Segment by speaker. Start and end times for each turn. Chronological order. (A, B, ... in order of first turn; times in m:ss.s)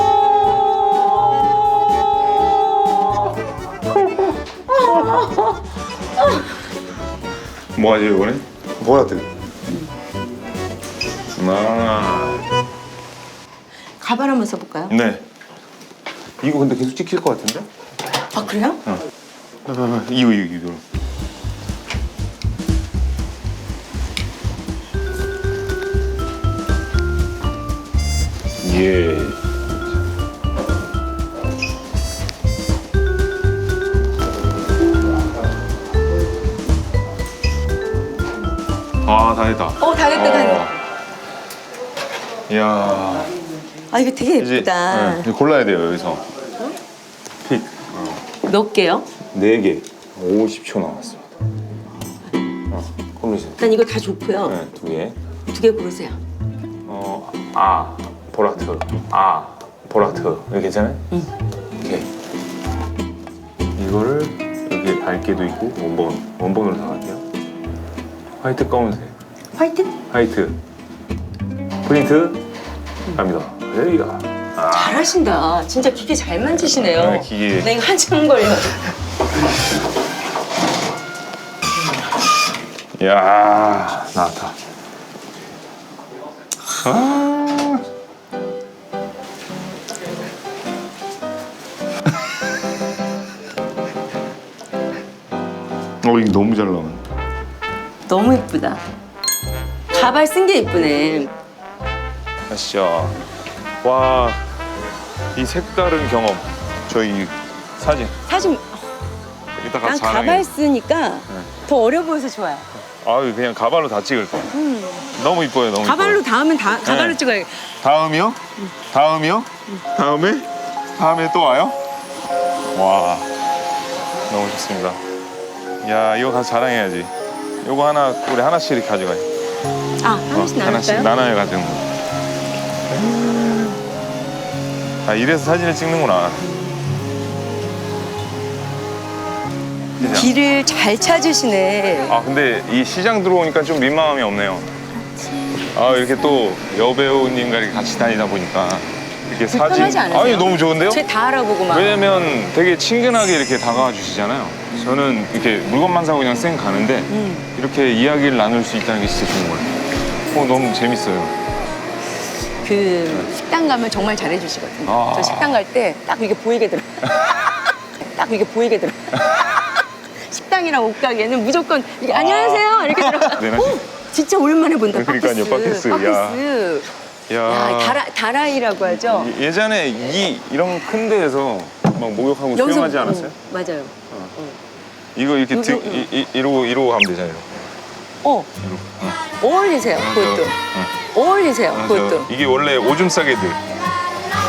0:03.9-0:05.2 A
0:04.8-0:05.5 B
0:06.2-0:06.4 B
0:07.7-0:09.3 A
0:11.4-0:12.4 A
0:14.0-0:15.0 B
0:14.9-0:15.3 A
0:16.4-0:17.7 A
0:18.3-0:18.8 B
0:19.6-0:20.8 A
0:28.6-0:29.6 A
0:39.0-0:40.8 A
0:39.8-0:40.6 B
0:42.5-0:43.3 A
0:43.9-0:45.3 B
0:44.4-0:46.3 A
0:47.4-0:48.2 A
0:48.4-0:49.1 B
0:49.3-0:51.3 A
0:52.7-0:53.6 A
0:53.6-0:54.6 B
0:54.4-0:55.2 A
0:55.5-0:56.2 B
0:56.8-1:01.1 A
1:01.7-1:02.1 A
1:03.8-1:07.2 A
1:08.4-1:09.1 A
1:09.5-1:10.0 B
1:10.1-1:10.6 A
1:11.8-1:12.4 A
1:13.1-1:15.1 A
1:14.7-1:18.9 B
1:16.6-1:17.7 A
1:23.0-1:24.6 A
1:26.8-1:27.8 A
1:36.0-1:37.0 A
1:38.1-1:38.8 B
1:39.9-1:41.3 B
1:42.5-1:43.2 A
1:43.8-1:44.5 A
1:45.3-1:48.2 A
1:48.2-1:49.0 B
1:49.5-1:50.5 A
1:49.8-1:52.7 B
1:53.0-1:54.5 A
1:54.5-1:55.1 B
1:55.2-1:56.2 A
1:55.8-1:57.7 B
1:56.8-1:57.2 A
1:57.8-2:01.8 A
2:02.7-2:03.3 A
2:04.3-2:05.0 A
2:05.8-2:09.3 A
2:10.0-2:11.1 B
2:10.3-2:11.9 A
2:13.0-2:13.3 A
2:15.0-2:16.5 A
2:20.0-2:20.3 A
2:20.0-2:22.1 B
2:22.1-2:24.7 A
2:25.7-2:31.0 A
2:29.5-2:32.3 B
2:31.7-2:39.7 A
2:37.1-2:37.5 B
2:40.3-2:41.4 A
2:42.6-2:56.9 B
2:44.8-2:45.6 A
2:52.1-2:53.8 A
2:54.9-2:56.4 A
2:57.3-2:58.0 A
2:57.4-2:59.3 B
2:58.9-3:03.4 A
3:02.5-3:04.5 B
3:05.1-3:07.5 A
3:05.5-3:06.1 B
3:08.2-3:08.5 B
3:08.6-3:09.2 A
3:09.4-3:10.5 B
3:09.9-3:10.9 A
3:11.1-3:12.3 B
3:11.7-3:13.6 A